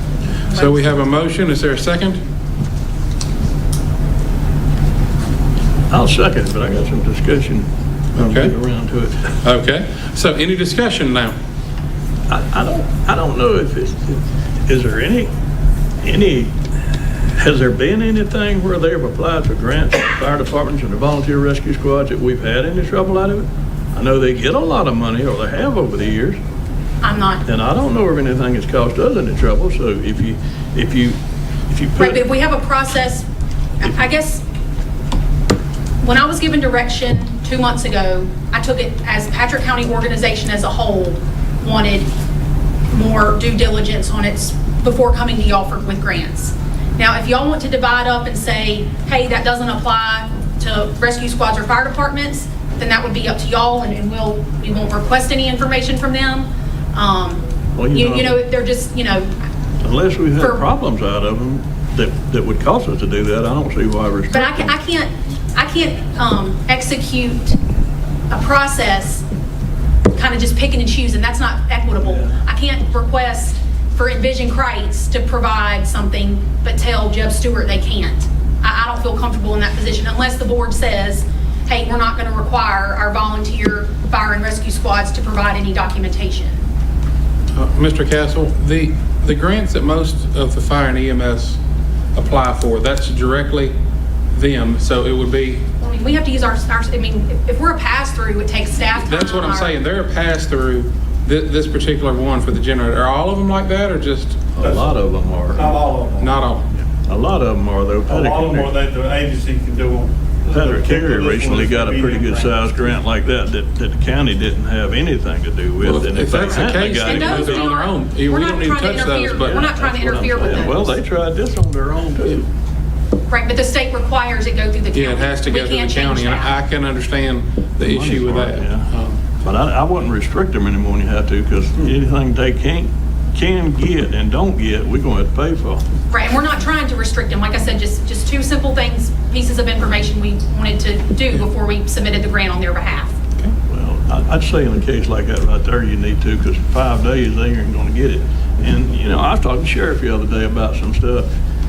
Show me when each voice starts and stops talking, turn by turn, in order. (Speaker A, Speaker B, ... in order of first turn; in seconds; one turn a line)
Speaker A: 0.5-2.2
Speaker B: 5.9-9.3
Speaker A: 8.2-8.5
Speaker A: 9.4-11.3
Speaker B: 12.3-15.3
Speaker B: 16.0-16.5
Speaker B: 17.3-26.4
Speaker C: 27.0-27.4
Speaker B: 27.4-31.2
Speaker B: 31.7-32.2
Speaker C: 32.0-33.2
Speaker C: 33.8-34.4
Speaker C: 36.0-42.1
Speaker C: 42.9-59.3
Speaker B: 57.7-58.4
Speaker B: 59.8-64.7
Speaker C: 60.4-60.6
Speaker C: 64.3-67.6
Speaker C: 68.3-69.2
Speaker C: 70.1-86.6
Speaker A: 87.5-91.6
Speaker A: 92.1-93.7
Speaker A: 94.3-95.7
Speaker C: 95.8-99.8
Speaker A: 99.0-104.5
Speaker B: 104.6-105.8
Speaker D: 104.6-104.9
Speaker D: 105.5-106.2
Speaker A: 106.2-106.7
Speaker B: 107.0-108.7
Speaker D: 108.1-112.6
Speaker B: 110.5-117.7
Speaker A: 115.8-119.6
Speaker C: 117.0-121.0
Speaker B: 119.4-122.5
Speaker C: 123.3-126.5
Speaker A: 124.9-129.2
Speaker B: 127.8-128.9
Speaker B: 129.4-135.8
Speaker C: 136.1-143.1
Speaker B: 143.7-151.2